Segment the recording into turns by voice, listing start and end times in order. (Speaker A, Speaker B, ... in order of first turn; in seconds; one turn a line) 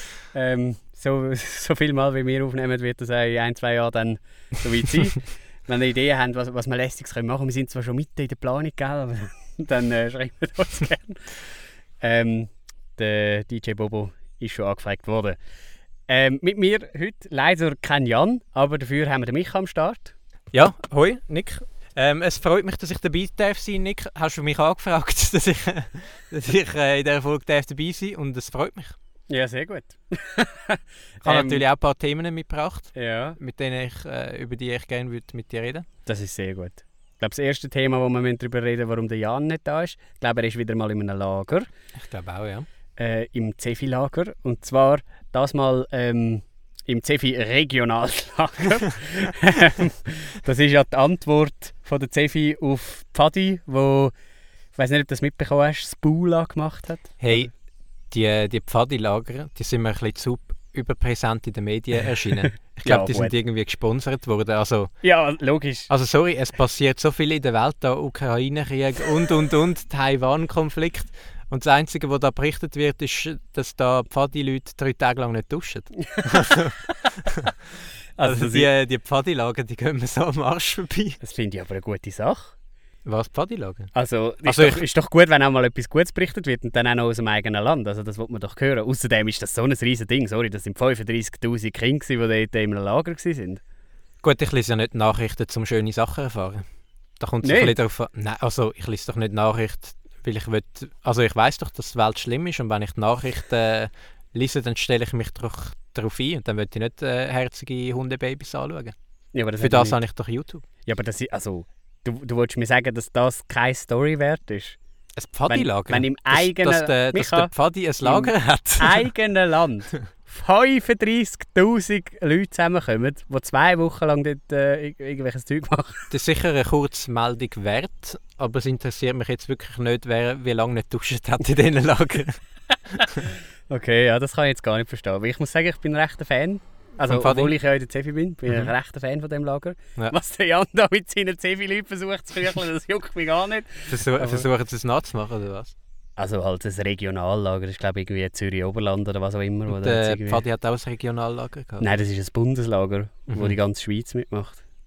Speaker A: 0.3-15.4
Speaker A: 16.1-20.1
Speaker B: 20.5-29.0
Speaker A: 29.3-31.6
Speaker B: 31.2-35.9
Speaker A: 33.0-33.4
Speaker A: 36.1-41.7
Speaker B: 42.0-42.7
Speaker A: 43.0-54.1
Speaker A: 54.8-57.5
Speaker B: 57.2-57.5
Speaker B: 58.1-65.1
Speaker A: 62.8-63.3
Speaker A: 65.0-65.9
Speaker B: 65.9-77.5
Speaker A: 78.2-78.7
Speaker B: 78.2-81.2
Speaker A: 81.2-82.5
Speaker B: 83.0-83.9
Speaker A: 83.9-93.6
Speaker B: 84.4-84.8
Speaker B: 94.2-96.7
Speaker B: 97.2-109.0
Speaker A: 97.4-97.8
Speaker A: 109.3-110.0
Speaker B: 109.6-110.6
Speaker A: 110.8-114.8
Speaker B: 115.2-119.1
Speaker A: 115.5-126.1
Speaker B: 126.1-133.2
Speaker A: 133.7-144.4
Speaker B: 137.0-137.6
Speaker B: 143.9-145.7
Speaker A: 146.2-150.4
Speaker B: 149.7-151.9
Speaker A: 151.8-154.6
Speaker B: 153.3-153.6